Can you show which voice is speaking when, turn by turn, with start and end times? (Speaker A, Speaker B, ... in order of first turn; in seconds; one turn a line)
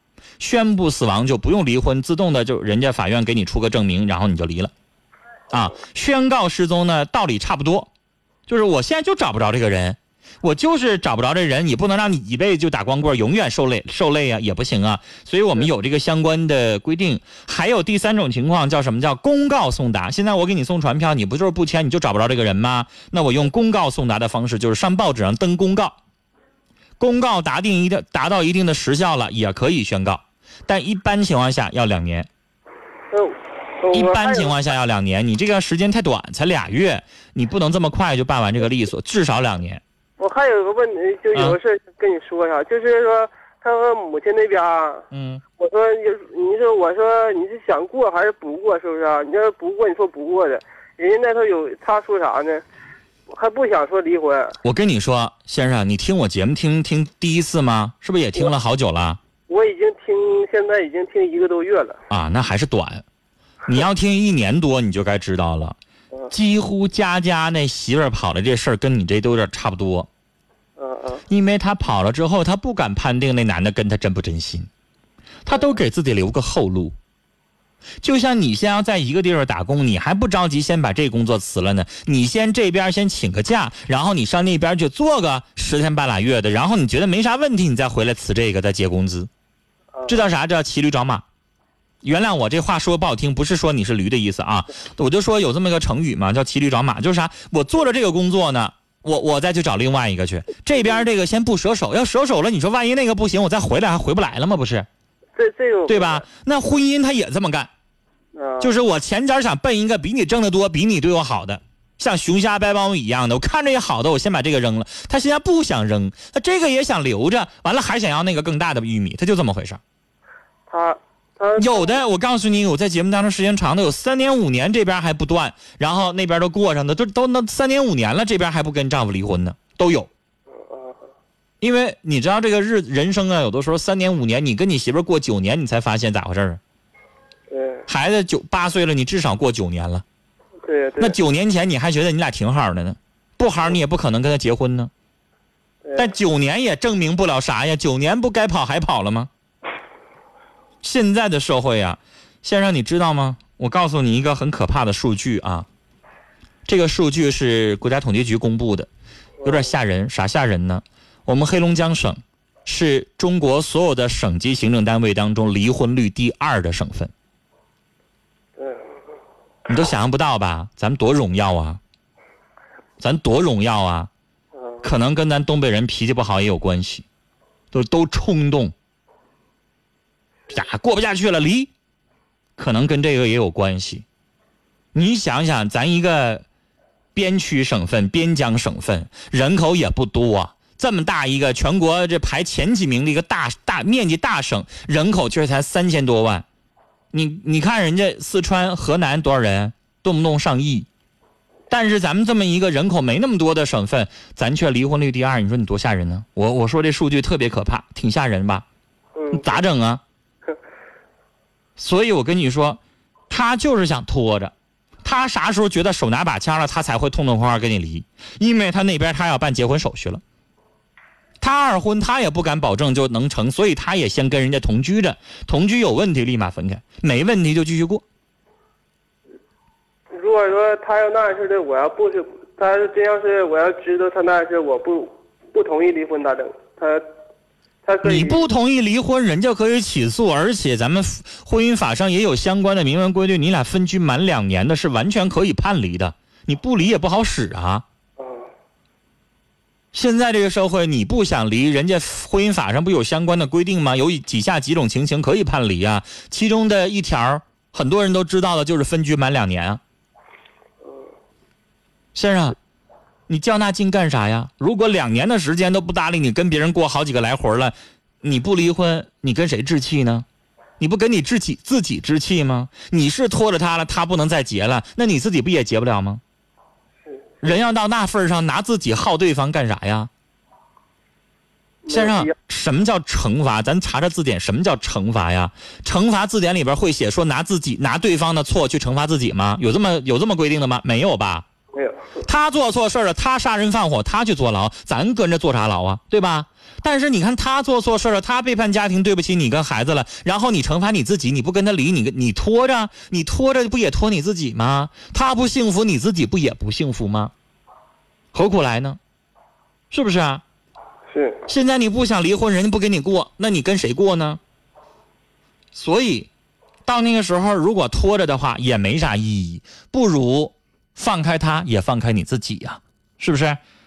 Speaker A: 0.4-4.7
Speaker A: 5.5-7.9
Speaker A: 8.5-25.9
Speaker A: 27.0-32.3
Speaker B: 33.1-34.5
Speaker A: 33.9-39.8
Speaker B: 40.2-45.0
Speaker A: 45.1-45.4
Speaker B: 45.6-52.6
Speaker B: 53.3-54.6
Speaker A: 54.6-59.2
Speaker B: 59.5-62.0
Speaker A: 62.1-63.0
Speaker A: 63.6-65.8
Speaker A: 66.3-70.1
Speaker B: 70.8-71.2
Speaker A: 71.3-74.7
Speaker A: 75.5-77.0
Speaker A: 78.0-89.3
Speaker A: 90.1-91.2
Speaker A: 92.0-104.9
Speaker B: 105.3-106.2
Speaker A: 105.9-107.7
Speaker B: 108.3-108.8
Speaker A: 108.6-119.8
Speaker B: 120.7-122.0
Speaker A: 121.6-130.1
Speaker B: 130.6-131.0
Speaker A: 131.6-136.6
Speaker B: 137.5-137.8
Speaker A: 137.9-140.0
Speaker B: 140.6-141.2
Speaker A: 141.0-144.9
Speaker A: 145.9-149.3
Speaker A: 150.8-155.7
Speaker A: 156.7-158.9
Speaker B: 159.4-159.7
Speaker A: 159.4-167.1
Speaker B: 168.6-168.8
Speaker A: 169.7-171.8
Speaker A: 173.0-174.1
Speaker A: 174.8-177.0
Speaker A: 177.7-178.7
Speaker A: 180.5-181.7
Speaker A: 182.6-184.0
Speaker A: 184.9-186.4
Speaker A: 187.1-196.4
Speaker A: 197.1-200.9
Speaker A: 201.7-208.6
Speaker B: 209.2-209.6
Speaker A: 209.3-210.0
Speaker A: 211.8-220.2
Speaker A: 221.4-228.0
Speaker B: 230.2-237.0
Speaker B: 237.8-238.4
Speaker A: 238.0-247.8
Speaker B: 248.2-248.5
Speaker A: 249.9-259.8
Speaker A: 262.1-262.6
Speaker A: 263.3-270.2
Speaker A: 270.8-276.2
Speaker B: 277.1-277.3
Speaker A: 277.4-280.1
Speaker B: 281.8-282.3
Speaker A: 281.9-291.4
Speaker B: 291.7-292.1
Speaker A: 292.2-307.3
Speaker A: 308.3-309.0
Speaker A: 309.9-310.4
Speaker B: 311.1-311.4
Speaker A: 311.5-314.4
Speaker A: 315.7-316.3
Speaker A: 316.9-323.6